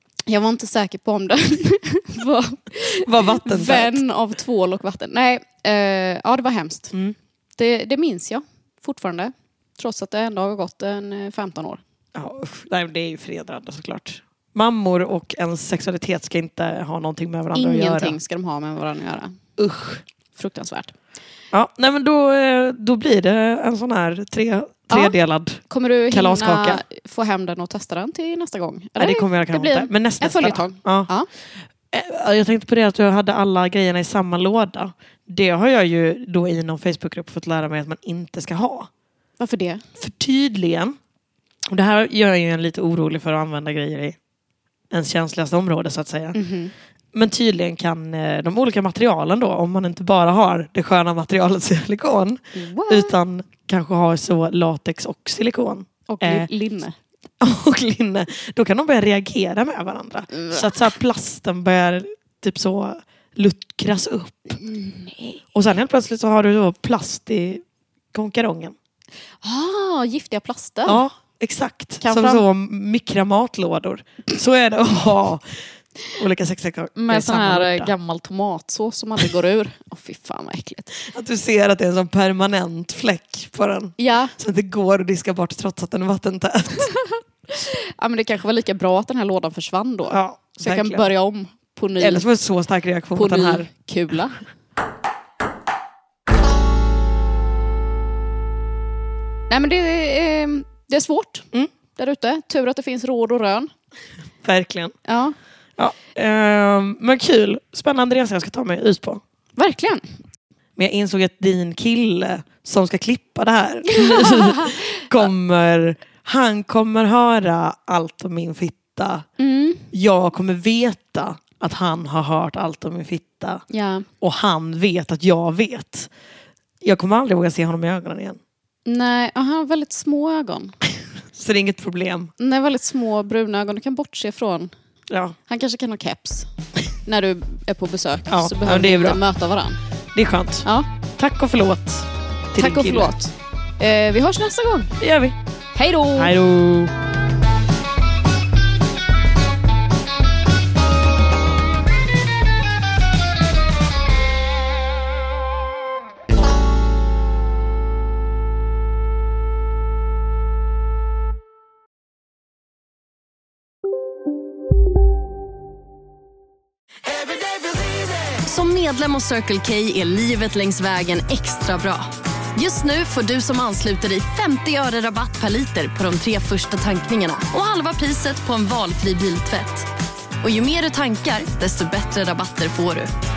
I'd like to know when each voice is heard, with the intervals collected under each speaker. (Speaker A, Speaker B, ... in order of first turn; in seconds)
Speaker A: 0.3-6.9, 7.6-11.8, 17.6-19.4, 20.4-20.9, 25.7-31.3, 39.4-39.8, 46.3-46.7, 52.5-53.1, 56.1-57.0, 60.4-60.7, 64.6-65.4, 69.4-71.0, 72.0-72.4, 77.0-81.0, 84.0-84.3, 87.5-92.2, 93.2-94.4, 99.5-103.7, 105.1-105.3, 109.6-110.0, 119.4-119.9, 123.7-124.1, 128.9-130.8, 132.4-134.7, 135.5-136.5, 137.1-139.8, 142.6-144.9, 145.8-146.3
Speaker B: 3.0-4.0, 12.2-18.2, 19.6-20.0, 21.5-26.8, 29.0-31.1, 31.9-38.9, 40.0-41.0, 41.7-44.2, 44.9-46.4, 47.1-56.5, 57.4-64.5, 65.5-68.8, 70.9-75.6, 76.1-77.9, 81.1-86.9, 90.1-91.1, 92.0-93.7, 104.4-105.0, 105.8-109.2, 110.8-119.3, 119.9-123.7, 124.2-126.1, 126.8-128.4, 131.3-132.3, 135.1-135.4, 138.3-139.2, 140.2-140.7, 141.2-143.1, 145.0-145.4, 146.2-146.9
Speaker C: 168.4-172.0, 172.6-179.9, 180.4-183.1